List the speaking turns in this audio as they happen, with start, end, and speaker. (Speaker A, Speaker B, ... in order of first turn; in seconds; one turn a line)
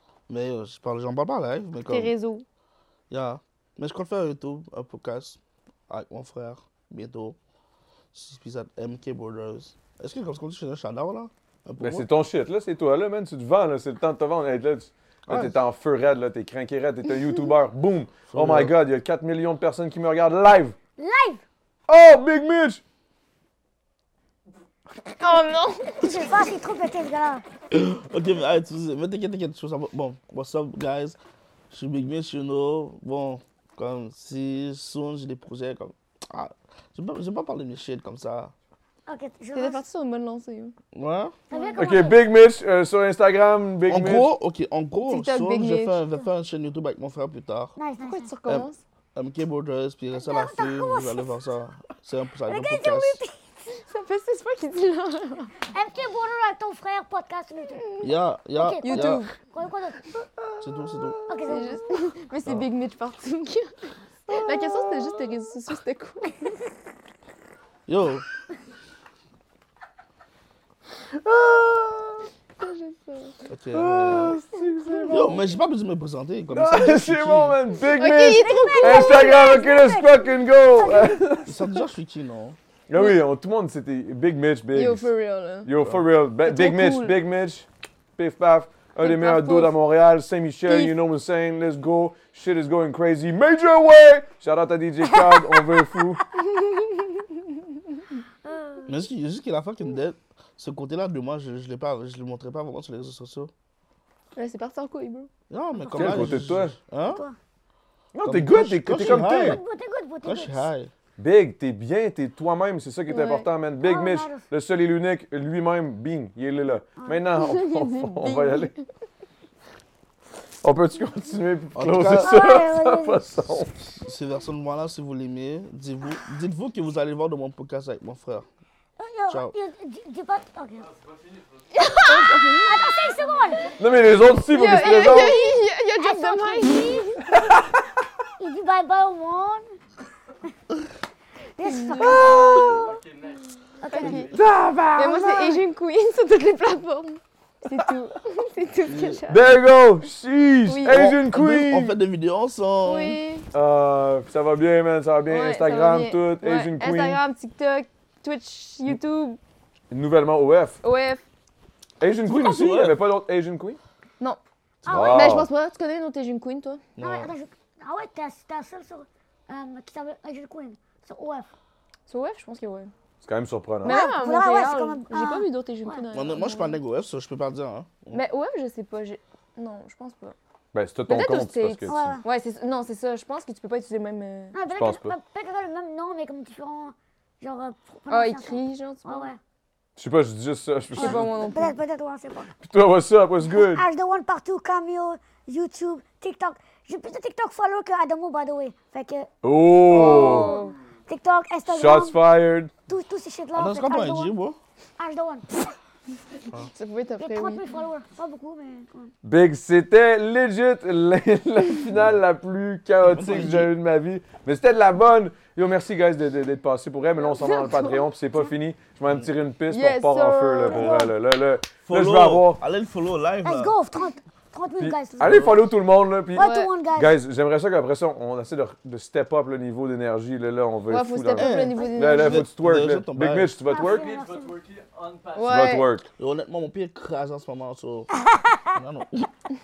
Speaker A: 0.3-2.1
Speaker B: 1.9-2.4
Speaker A: 3.1-7.3
Speaker A: 8.1-12.1
Speaker C: 11.8-20.8
Speaker A: 15.3-15.5
Speaker A: 18.3-18.8
Speaker D: 21.0-21.4
Speaker C: 21.9-22.8
Speaker B: 25.2-26.4
Speaker D: 25.9-27.4
Speaker A: 27.7-31.2
Speaker A: 31.7-38.5
Speaker D: 39.1-39.8
Speaker B: 39.5-40.7
Speaker A: 40.9-41.3
Speaker D: 41.5-42.2
Speaker C: 41.8-44.3
Speaker A: 43.9-47.7
Speaker B: 45.0-46.0
Speaker D: 47.8-48.3
Speaker B: 48.0-48.8
Speaker A: 48.5-53.2
Speaker D: 50.2-51.2
Speaker D: 52.5-53.4
Speaker B: 53.9-55.6
Speaker D: 55.7-58.0
Speaker A: 58.0-59.3
Speaker D: 58.5-60.2
Speaker B: 58.8-59.3
Speaker A: 60.6-61.2
Speaker D: 61.3-61.8
Speaker B: 61.5-66.5
Speaker A: 67.9-68.2
Speaker C: 71.2-72.3
Speaker B: 72.6-73.4
Speaker A: 73.5-74.4
Speaker C: 73.7-75.3
Speaker B: 74.6-75.5
Speaker A: 75.1-77.6
Speaker C: 76.5-81.6
Speaker B: 77.9-79.3
Speaker D: 78.0-81.2
Speaker A: 81.4-82.6
Speaker C: 82.9-85.1
Speaker B: 84.7-85.7
Speaker C: 85.6-96.2
Speaker A: 85.8-86.0
Speaker B: 86.4-87.2
Speaker B: 89.0-89.8
Speaker B: 90.7-91.0
Speaker B: 96.5-97.2
Speaker D: 98.5-98.8
Speaker A: 98.9-103.5
Speaker B: 104.3-105.3
Speaker A: 105.5-107.2
Speaker D: 105.8-106.5
Speaker C: 105.9-106.8
Speaker D: 107.0-107.4
Speaker C: 108.1-109.6
Speaker A: 108.2-109.6
Speaker D: 108.9-110.7
Speaker A: 110.2-110.9
Speaker C: 111.2-118.7
Speaker B: 113.1-113.5
Speaker D: 113.8-114.5
Speaker B: 117.3-118.8
Speaker C: 120.6-123.8
Speaker A: 121.7-122.5
Speaker D: 122.2-123.2
Speaker A: 124.0-128.4
Speaker D: 129.0-130.9
Speaker A: 129.3-129.5
Speaker E: 130.8-132.2
Speaker B: 131.7-132.7
Speaker D: 132.6-133.8
Speaker E: 132.9-133.7
Speaker C: 133.8-135.4
Speaker B: 134.5-137.2
Speaker D: 134.9-137.6
Speaker C: 137.3-137.6
Speaker D: 138.4-139.7
Speaker D: 141.6-143.0
Speaker B: 141.6-142.2
Speaker E: 142.0-144.4
Speaker D: 143.8-144.3
Speaker B: 143.9-144.3
Speaker C: 144.3-145.4
Speaker B: 144.9-149.4
Speaker A: 148.9-149.2
Speaker C: 149.3-152.0
Speaker B: 150.7-151.2
Speaker A: 150.9-153.2
Speaker B: 152.8-153.5
Speaker C: 153.5-157.2
Speaker B: 155.3-159.4
Speaker C: 159.9-160.8
Speaker B: 160.8-161.2
Speaker C: 162.0-163.8
Speaker A: 162.3-163.0
Speaker D: 164.8-165.4
Speaker C: 164.8-165.5
Speaker B: 164.9-166.8
Speaker A: 167.0-167.3
Speaker D: 167.0-171.5
Speaker B: 172.1-172.9
Speaker C: 173.2-174.1
Speaker B: 173.8-176.8
Speaker D: 173.8-176.0
Speaker A: 176.1-178.2
Speaker B: 178.1-180.3
Speaker C: 180.7-182.2
Speaker B: 181.1-184.6
Speaker D: 181.8-182.2
Speaker D: 184.5-189.4
Speaker C: 184.7-185.2
Speaker B: 188.1-189.3
Speaker C: 190.0-191.3
Speaker D: 190.9-192.5
Speaker B: 190.9-191.7
Speaker C: 192.6-193.8
Speaker D: 193.5-199.3
Speaker C: 199.4-200.6
Speaker B: 199.9-200.7
Speaker D: 199.9-202.2
Speaker C: 201.7-202.7
Speaker D: 202.9-204.3
Speaker A: 203.5-204.6
Speaker D: 205.0-205.7
Speaker B: 206.7-207.6
Speaker D: 207.2-209.1
Speaker C: 209.2-222.6
Speaker A: 213.0-213.7
Speaker B: 217.2-218.0
Speaker B: 219.7-221.1
Speaker D: 220.7-221.1
Speaker A: 221.8-223.8
Speaker D: 223.4-225.6
Speaker C: 224.8-234.1
Speaker A: 225.2-225.5
Speaker D: 226.3-227.1
Speaker B: 226.4-226.7
Speaker B: 230.9-232.4
Speaker A: 231.3-233.5
Speaker D: 231.8-232.1
Speaker D: 233.7-234.6
Speaker E: 233.7-235.8
Speaker B: 235.3-235.9
Speaker C: 235.4-236.1
Speaker A: 236.2-238.1
Speaker A: 238.7-239.3